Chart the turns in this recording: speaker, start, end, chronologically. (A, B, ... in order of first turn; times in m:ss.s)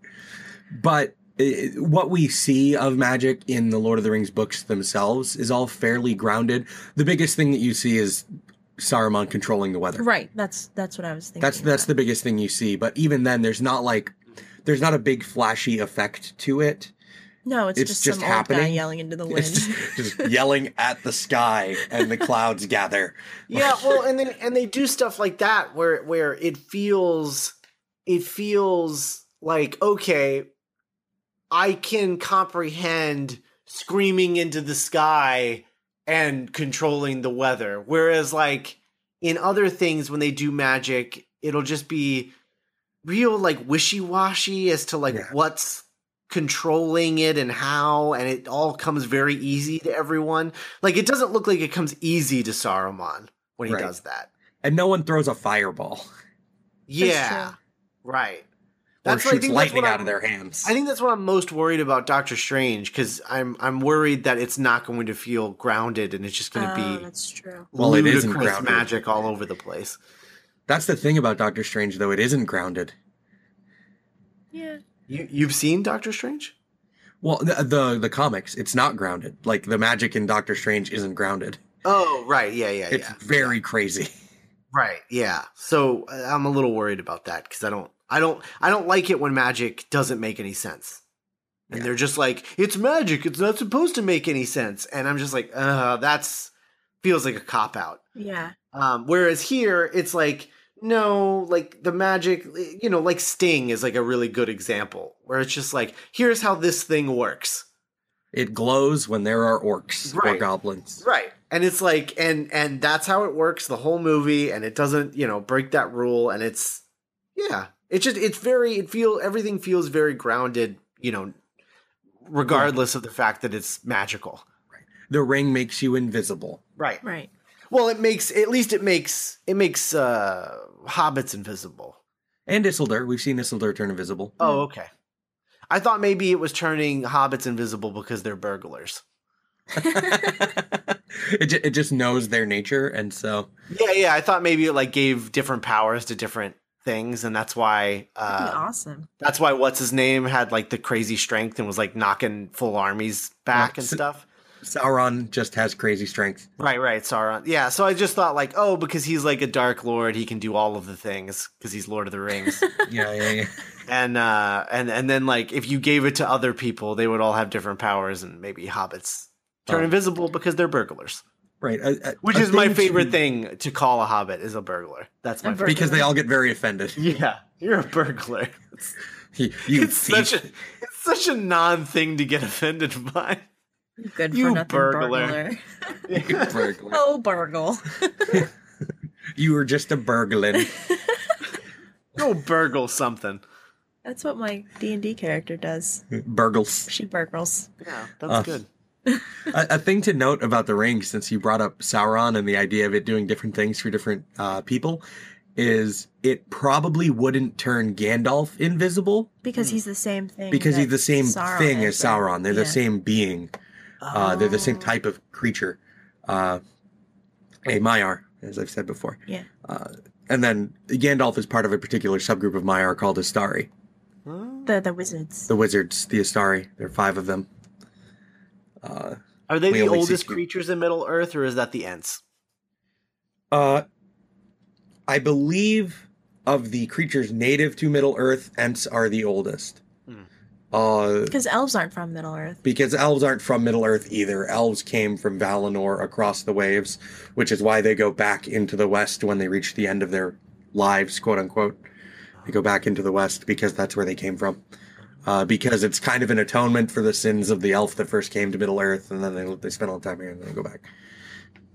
0:00.7-0:08.3 A
0:08.8-0:10.0 A
0:10.0-0:11.9 B
0:11.4-0:16.9 A
0:17.4-0:20.3 B
0:17.8-0:24.0 A
0:23.5-0:30.5 C
0:31.5-0:42.3 C
0:43.0-0:54.3 C
0:54.6-0:56.1 A
0:56.9-0:58.5 C
0:57.0-0:57.5 B
0:59.0-1:00.1 C
0:59.1-1:00.7 A
1:00.6-1:07.1 C
1:06.6-1:07.7 B
1:07.7-1:10.0 C
1:07.8-1:08.9 A
1:10.7-1:13.0 A
1:14.5-1:14.8 B
1:15.1-1:16.5 C
1:17.2-1:21.6 A
1:21.8-1:23.6 C
1:22.9-1:24.1 A
1:24.7-1:31.0 C
1:31.7-1:38.0 C
1:38.2-1:38.6 B
1:38.7-1:47.6 C
1:48.3-1:51.0 A
1:50.1-1:50.5 C
1:51.0-1:56.8 C
1:57.4-2:01.4 C
2:02.3-2:04.4 C
2:02.5-2:02.7 A
2:05.1-2:06.6 A
2:07.0-2:07.3 B
2:07.7-2:12.0 C
2:12.5-2:14.4 A
2:14.4-2:14.9 C
2:14.4-2:14.7 B
2:15.7-2:19.0 C
2:19.8-2:20.5 B
2:19.8-2:23.5 A
2:23.7-2:28.6 C
2:28.3-2:29.1 B
2:29.2-2:34.3 C
2:33.6-2:34.0 A
2:34.6-2:36.5 A
2:36.6-2:42.6 C
2:42.6-2:42.9 B
2:42.9-2:43.6 A
2:43.9-2:51.2 C
2:51.6-2:53.2 A
2:52.2-2:56.0 C
2:55.4-2:56.1 B
2:55.7-2:57.0 A
2:57.0-2:59.0 C
2:59.4-3:00.5 A
2:59.7-3:03.5 C
3:04.0-3:06.0 B
3:04.3-3:05.4 C
3:06.1-3:06.6 C
3:06.2-3:07.0 A
3:06.9-3:08.4 B
3:09.4-3:10.8 A
3:10.6-3:11.4 B
3:12.2-3:13.4 C
3:14.0-3:16.0 B
3:16.1-3:16.9 A
3:16.9-3:17.7 B
3:17.8-3:18.7 C
3:18.3-3:18.5 A
3:19.5-3:25.0 A
3:25.6-3:29.3 A
3:29.4-3:32.8 B
3:30.5-3:33.5 A
3:34.0-3:34.9 C
3:34.1-3:36.6 A
3:37.6-3:43.7 A
3:44.3-3:44.7 C
3:44.7-3:45.5 B
3:45.5-3:47.5 A
3:48.8-3:50.4 A
3:49.5-3:52.2 C
3:53.5-3:53.8 A
3:55.1-3:59.8 A
4:00.7-4:01.4 A
4:01.3-4:02.6 B
4:02.6-4:11.8 A
4:12.5-4:14.6 A
4:15.2-4:20.9 A